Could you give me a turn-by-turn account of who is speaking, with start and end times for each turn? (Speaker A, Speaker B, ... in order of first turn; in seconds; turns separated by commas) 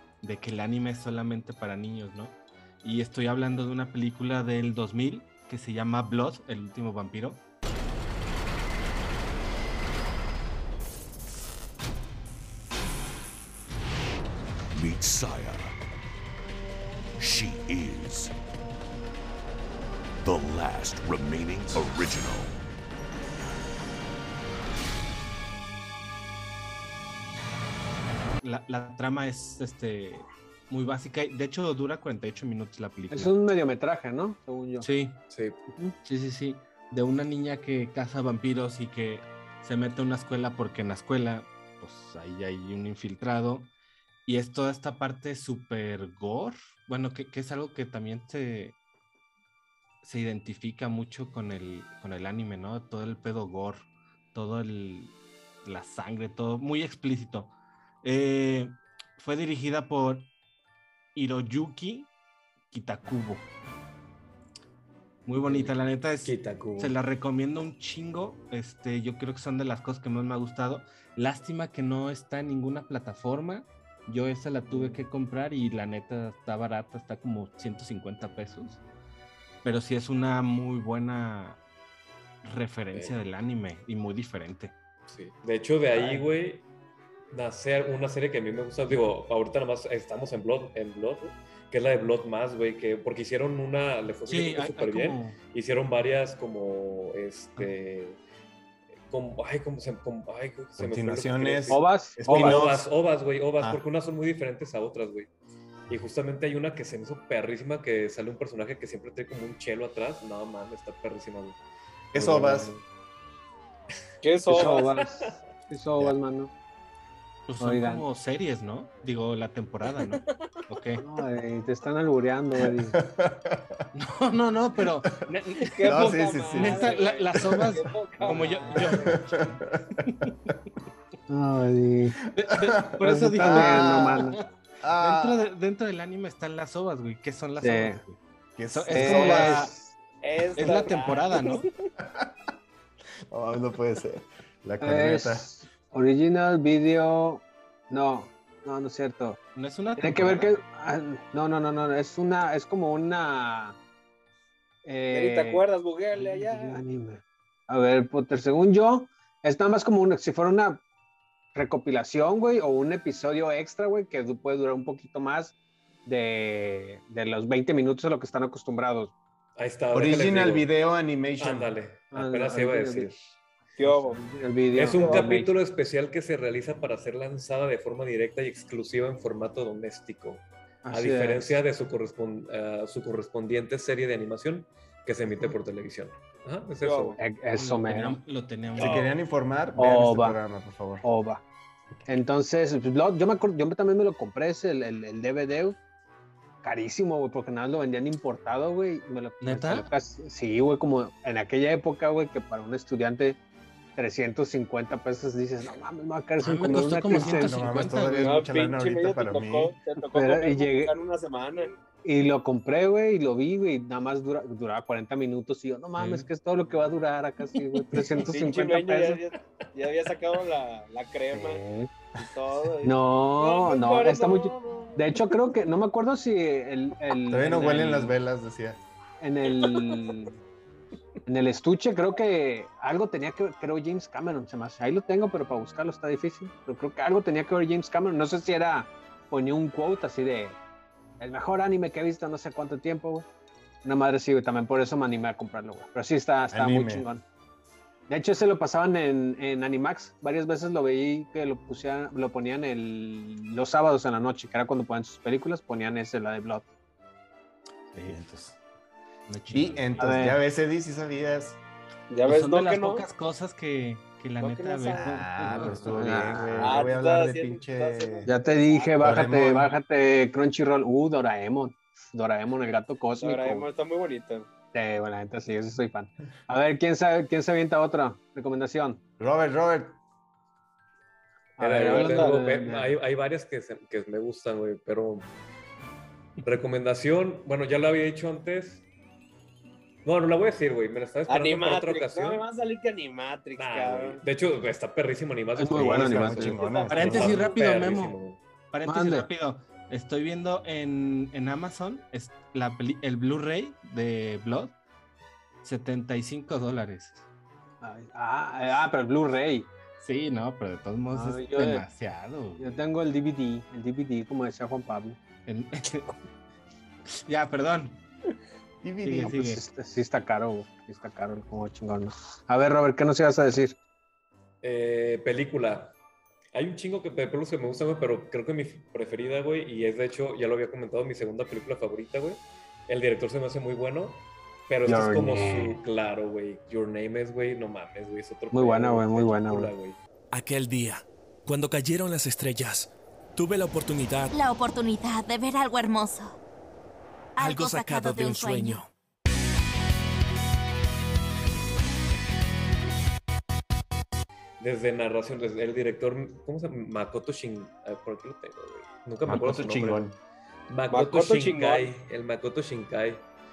Speaker A: 0.2-7.4, Speaker B: 14.7-15.8, Speaker B: 17.2-18.3, Speaker B: 20.2-22.6, Speaker A: 28.4-33.3, Speaker C: 33.1-34.9, Speaker A: 34.8-35.2, Speaker D: 35.3-35.6, Speaker A: 36.0-43.7, Speaker A: 44.2-48.8, Speaker A: 50.0-55.1, Speaker A: 55.6-57.5, Speaker A: 58.0-60.3, Speaker A: 61.1-62.1, Speaker A: 62.7-63.5, Speaker A: 65.2-78.8, Speaker D: 65.5-66.9, Speaker A: 79.6-81.6, Speaker A: 82.4-84.7, Speaker D: 85.1-86.6, Speaker A: 85.9-86.3, Speaker D: 87.3-98.2, Speaker A: 94.3-95.3, Speaker D: 99.1-105.3, Speaker E: 100.8-102.9, Speaker C: 101.7-102.6, Speaker D: 105.9-111.6, Speaker E: 112.1-112.7, Speaker C: 112.1-112.8, Speaker F: 114.2-115.0, Speaker C: 114.5-116.5, Speaker A: 117.5-121.0, Speaker C: 117.6-118.0, Speaker C: 121.0-123.0, Speaker E: 122.9-123.8, Speaker A: 124.0-129.4, Speaker F: 125.7-129.2, Speaker E: 125.8-127.7, Speaker E: 128.9-130.5, Speaker A: 130.0-130.3, Speaker C: 131.3-132.2, Speaker A: 132.3-134.4, Speaker E: 132.5-134.2, Speaker C: 133.0-134.4, Speaker E: 134.8-135.5, Speaker A: 135.0-138.2, Speaker C: 137.6-138.0, Speaker E: 138.6-139.7, Speaker A: 138.7-139.7, Speaker C: 138.9-139.9, Speaker F: 140.2-141.7, Speaker A: 140.5-141.6, Speaker E: 142.0-142.3, Speaker E: 143.3-145.5, Speaker C: 144.8-149.4, Speaker A: 149.5-150.5, Speaker C: 150.0-153.8, Speaker C: 154.8-155.6, Speaker F: 155.1-156.8, Speaker C: 156.2-160.8, Speaker C: 161.5-165.5, Speaker C: 166.1-169.1, Speaker D: 169.6-170.7, Speaker E: 169.9-171.7, Speaker D: 171.4-173.2, Speaker C: 172.1-173.1, Speaker F: 173.8-174.2, Speaker C: 173.8-175.5, Speaker D: 174.7-187.2, Speaker F: 174.9-175.3, Speaker C: 180.8-181.6, Speaker F: 186.8-187.2, Speaker C: 187.2-188.2, Speaker A: 187.5-189.1, Speaker E: 188.8-191.0, Speaker D: 188.8-189.1, Speaker C: 189.8-190.4, Speaker C: 191.0-191.4, Speaker C: 192.1-195.8, Speaker C: 196.6-203.4, Speaker A: 199.4-199.9, Speaker C: 203.9-207.5, Speaker A: 206.4-208.4, Speaker E: 207.1-209.7, Speaker F: 208.2-211.8, Speaker C: 210.1-210.9, Speaker C: 212.0-219.2, Speaker A: 216.0-216.3, Speaker F: 218.2-221.6, Speaker C: 221.3-221.9, Speaker F: 222.2-225.1, Speaker C: 222.8-228.2, Speaker E: 227.3-228.8, Speaker C: 229.2-230.3, Speaker C: 231.2-240.6, Speaker C: 241.2-243.3, Speaker C: 243.8-247.2, Speaker E: 246.5-247.1, Speaker C: 248.1-256.7, Speaker E: 257.9-258.6, Speaker A: 259.3-260.3, Speaker E: 259.5-261.6, Speaker C: 260.0-260.4, Speaker F: 262.1-263.1, Speaker A: 262.2-265.9, Speaker F: 264.4-265.2, Speaker E: 264.9-268.3, Speaker C: 265.9-266.8, Speaker F: 266.6-269.2, Speaker C: 268.2-273.6, Speaker E: 269.0-269.7, Speaker F: 273.2-274.5, Speaker C: 274.7-279.0, Speaker E: 279.2-280.0, Speaker C: 281.6-282.9, Speaker D: 281.6-285.3, Speaker F: 281.8-282.4, Speaker D: 286.4-288.8, Speaker D: 290.0-292.4, Speaker F: 291.3-294.2, Speaker D: 293.6-298.4, Speaker C: 295.6-296.6, Speaker E: 295.7-297.4, Speaker F: 296.4-297.8, Speaker A: 296.9-298.2, Speaker A: 298.7-304.7, Speaker C: 298.8-299.3, Speaker A: 305.6-307.2, Speaker C: 307.8-309.7, Speaker A: 310.0-312.8, Speaker C: 311.1-311.9, Speaker C: 312.6-315.2, Speaker A: 315.4-316.1, Speaker A: 317.3-318.0, Speaker E: 318.8-319.5, Speaker A: 319.0-319.6, Speaker C: 319.4-323.8, Speaker D: 324.6-325.9, Speaker D: 326.5-340.0, Speaker C: 334.9-335.8, Speaker C: 338.5-339.7, Speaker G: 340.3-344.3, Speaker H: 344.3-346.3, Speaker H: 347.4-348.8, Speaker G: 347.4-348.9, Speaker D: 354.6-360.1, Speaker E: 359.2-360.2, Speaker D: 360.7-363.2, Speaker F: 360.9-361.9